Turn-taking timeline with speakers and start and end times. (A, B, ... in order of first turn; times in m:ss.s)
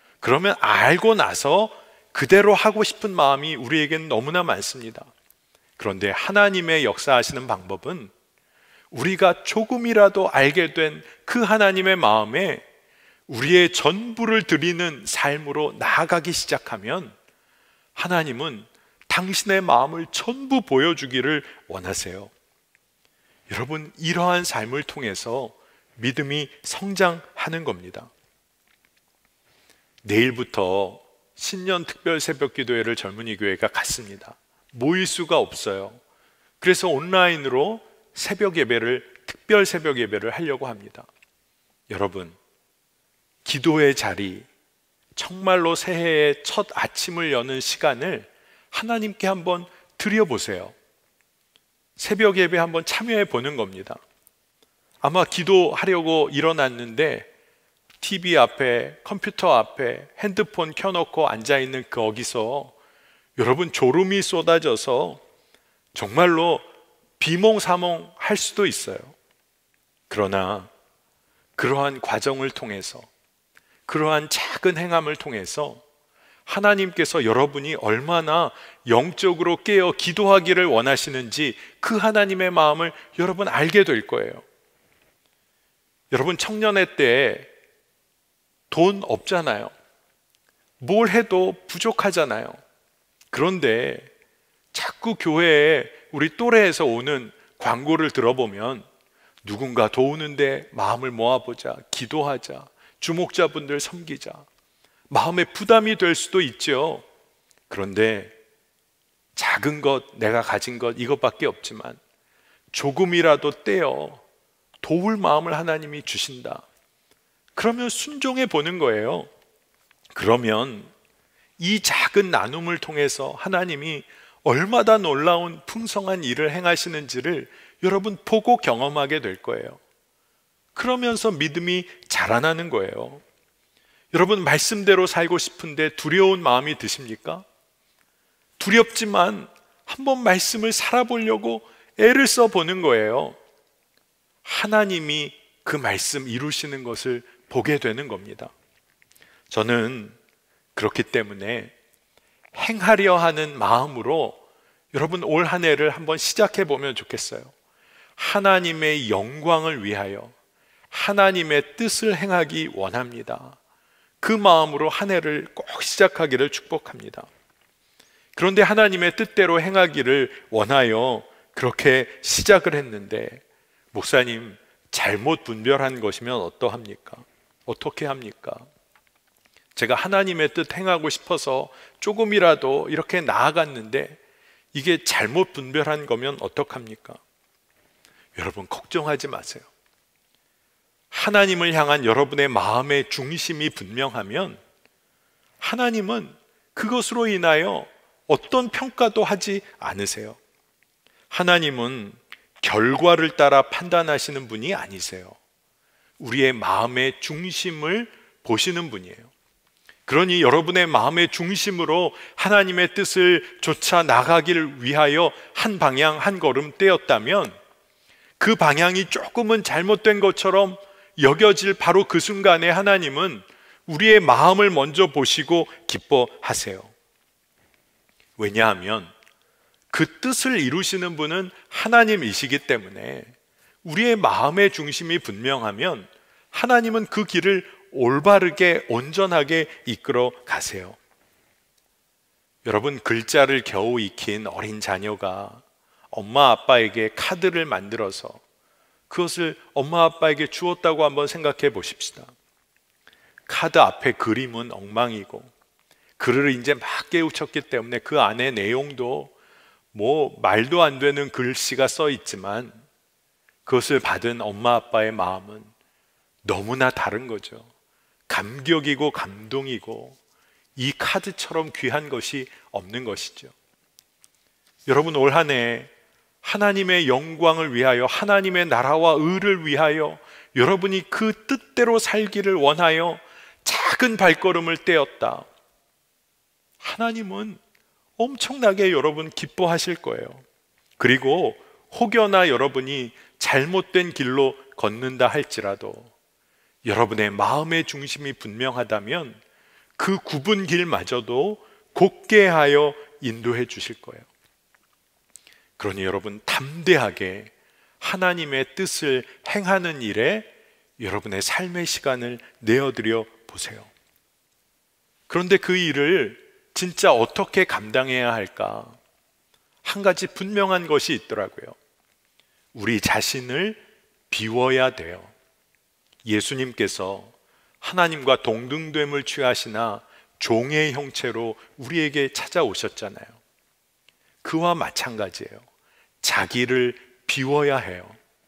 0:00.2-0:05.1 A
0:05.8-0:08.1 A
0:08.9-0:12.6 A
0:13.3-0:17.2 A
0:18.0-0:22.3 A
0:23.5-0:28.1 A
0:30.0-0:36.0 A
0:36.6-0:41.1 A
0:41.9-0:42.4 A
0:43.4-0:44.5 A
0:45.2-0:50.8 A
0:52.0-0:54.0 A
0:55.0-0:57.3 A
0:58.0-1:02.7 A
1:03.4-1:05.2 A
1:05.9-1:06.7 A
1:07.2-1:09.2 A
1:10.1-1:10.7 A
1:11.6-1:13.1 A
1:13.9-1:15.8 A
1:16.5-1:24.4 A
1:26.1-1:27.5 A
1:28.7-1:29.7 A
1:30.8-1:32.6 A
1:33.3-1:34.1 A
1:34.7-1:38.9 A
1:39.4-1:44.5 A
1:45.1-1:47.0 A
1:47.7-1:48.3 A
1:49.4-1:52.0 A
1:52.7-1:54.2 A
1:54.8-1:56.6 A
1:57.6-1:59.3 A
2:00.1-2:00.9 A
2:01.6-2:09.8 A
2:10.8-2:13.2 A
2:14.1-2:17.4 A
2:18.6-2:23.4 A
2:24.4-2:28.5 A
2:29.5-2:30.2 A
2:30.8-2:31.7 A
2:32.5-2:34.4 A
2:34.9-2:37.5 A
2:38.2-2:40.3 A
2:40.9-2:43.6 A
2:44.2-2:47.3 A
2:48.4-2:58.7 A
2:59.8-3:04.2 A
3:04.7-3:07.2 A
3:08.4-3:09.7 A
3:11.1-3:14.6 A
3:15.6-3:20.4 A
3:21.3-3:25.4 A
3:26.2-3:29.3 A
3:30.1-3:37.6 A
3:38.4-3:46.9 A
3:48.4-3:49.1 A
3:49.9-4:01.0 A
4:02.6-4:08.4 A
4:09.1-4:12.3 A
4:13.5-4:15.5 A
4:16.2-4:19.3 A
4:19.9-4:22.8 A
4:23.7-4:25.7 A
4:26.4-4:27.7 A
4:28.3-4:30.2 A
4:30.8-4:33.5 A
4:34.9-4:35.9 A
4:36.4-4:45.5 A
4:46.8-4:47.6 A
4:48.2-4:50.4 A
4:51.0-4:56.1 A
4:56.8-4:59.4 A
5:00.0-5:04.3 A
5:05.8-5:13.9 A
5:15.3-5:19.0 A
5:19.8-5:21.8 A
5:22.7-5:25.3 A
5:26.2-5:33.4 A
5:34.4-5:35.6 A
5:36.2-5:38.2 A